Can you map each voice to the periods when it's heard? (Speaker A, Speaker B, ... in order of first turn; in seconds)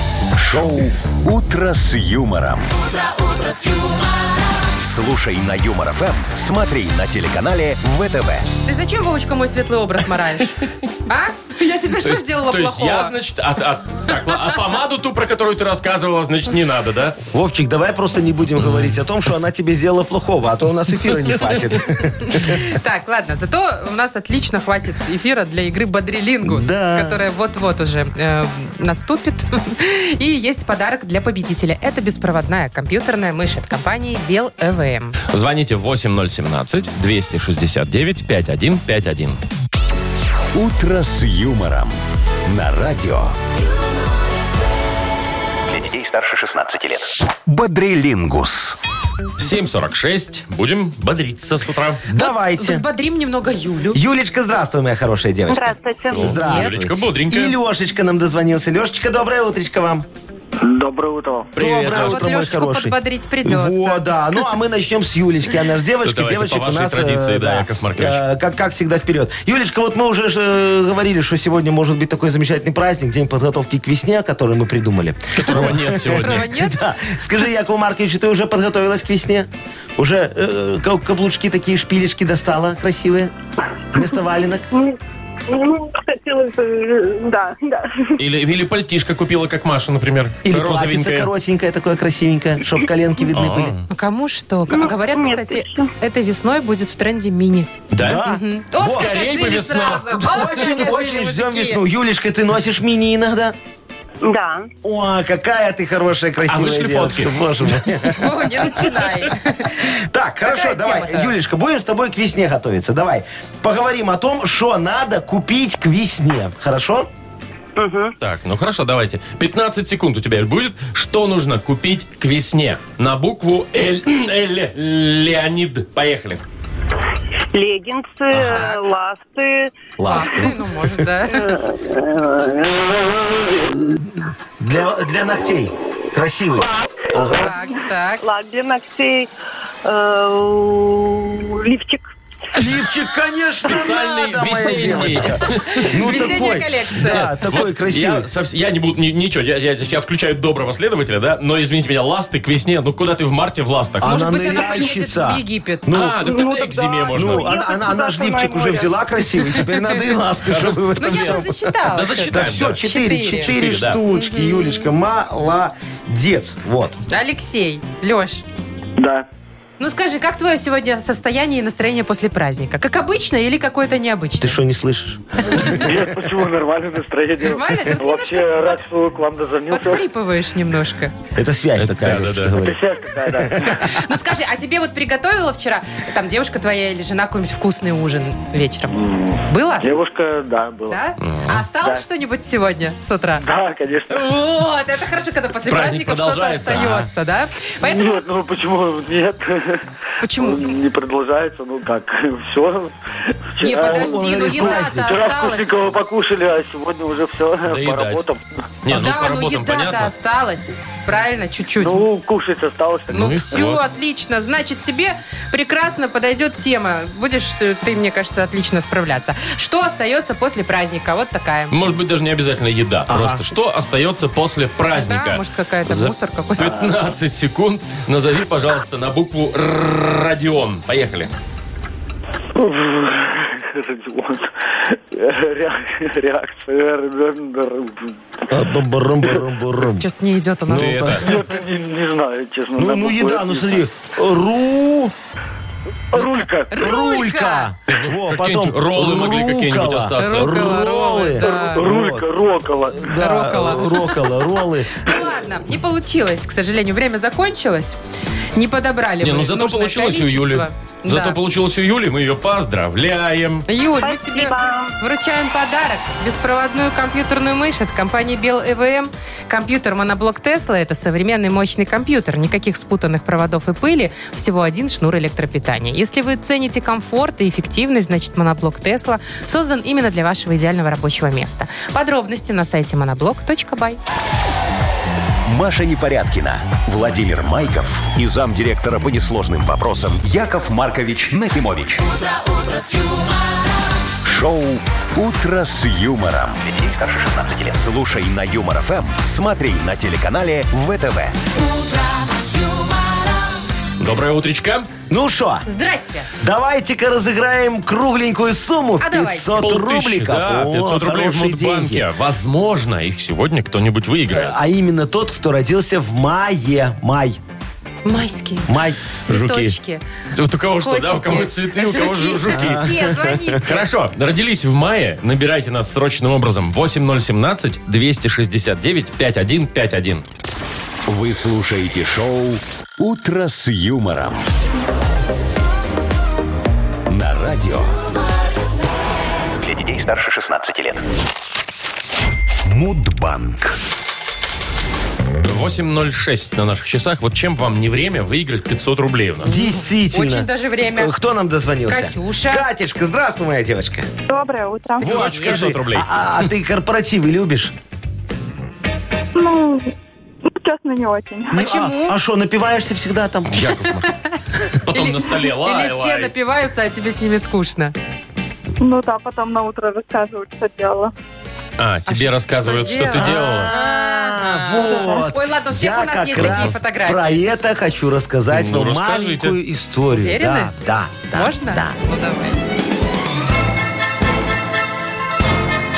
Speaker A: 0.4-2.7, 4.8-8.5, 40.5-43.4, 45.7-48.8, 285.4-292.1, 294.2-301.4, 331.1-334.5, 337.1-338.0, 339.6-341.0, 342.6-343.8
Speaker B: 3.3-4.0, 55.5-56.4, 85.5-87.8, 94.7-95.9, 104.2-104.7, 117.8-118.1, 127.5-129.7, 131.3-133.2, 138.2-139.3, 139.9-142.1, 156.2-159.0, 264.0-264.9, 292.5-293.3
Speaker C: 8.7-13.1, 22.2-35.2, 52.2-54.0, 56.2-56.7, 61.9-64.1, 76.1-76.8, 93.9-97.7, 98.2-101.8, 108.1-109.9, 110.4-111.3, 128.5-128.8, 130.1-131.6, 137.3-138.2, 144.7-145.1, 145.7-147.3, 154.0-156.0, 159.5-160.0, 161.0-164.9, 167.1-168.4, 169.8-174.6, 175.6-175.8, 177.4-178.9, 179.7-181.1, 183.8-190.0, 190.9-193.4, 194.1-198.2, 200.2-200.8, 203.6-205.9, 208.9-212.1, 213.1-221.8, 224.9-226.7, 240.0-241.8, 246.2-247.7, 250.2-251.9, 253.1-258.0, 258.6-261.4, 263.7-284.0, 305.7-306.3, 309.0-309.7, 318.1-320.0, 320.8-323.9, 349.5-351.1, 351.9-352.7, 355.0-355.7, 361.5-362.2, 364.9-367.9, 372.1-377.4, 380.1-380.7, 381.3-382.6
Speaker D: 12.0-17.2, 18.6-18.9, 35.3-39.4, 49.4-52.0, 56.1-57.6, 61.5-62.4, 66.0-68.2, 75.3-76.5, 88.2-91.3, 93.3-93.8, 97.9-98.2, 98.8-100.5, 106.5-107.4, 118.2-126.4, 143.6-146.4, 147.0-154.2, 155.9-157.5, 160.5-162.8, 163.5-164.0, 181.8-182.6, 191.2-191.6, 195.7-197.0, 207.7-208.2, 208.8-210.1, 213.1-213.8, 221.7-231.3, 240.7-241.2, 247.9-250.8, 259.2-263.7, 304.0-304.9, 309.6-314.6, 319.3-319.8, 320.3-322.9, 323.6-330.2, 345.4-349.5, 355.0-356.1, 363.5-364.1, 364.7-366.3, 371.8-373.7, 376.4-376.7, 378.5-379.6
Speaker E: 17.3-22.6, 26.4-27.2, 52.1-52.9, 53.9-60.1, 61.6-83.3, 83.9-84.7, 90.5-93.8, 97.9-99.1, 100.2-103.6, 104.8-108.7, 109.8-117.1, 128.3-128.6, 130.0-130.6, 133.7-137.5, 142.6-148.3, 154.0-156.3, 157.1-161.7, 162.3-167.0, 174.4-175.8, 181.3-183.8, 196.7-197.1, 203.8-205.2, 223.1-223.4, 238.5-240.0, 240.7-241.3, 242.8-245.1, 246.7-252.3, 252.9-255.1, 305.1-305.7, 306.4-312.1, 314.3-317.4, 318.7-319.0, 322.5-323.6, 349.4-354.1, 355.0-357.7, 361.5-363.8, 373.1-382.0
Speaker F: 60.6-61.5, 169.0-169.3, 175.7-180.1, 182.6-183.9, 189.0-191.0, 193.4-194.3, 197.8-199.8, 200.3-202.9, 203.5-208.6, 211.8-213.6, 232.5-238.2, 241.2-243.9, 246.1-246.8, 251.4-253.2
Speaker G: 354.3-355.1, 359.4-359.9, 360.6-361.6, 368.8-371.1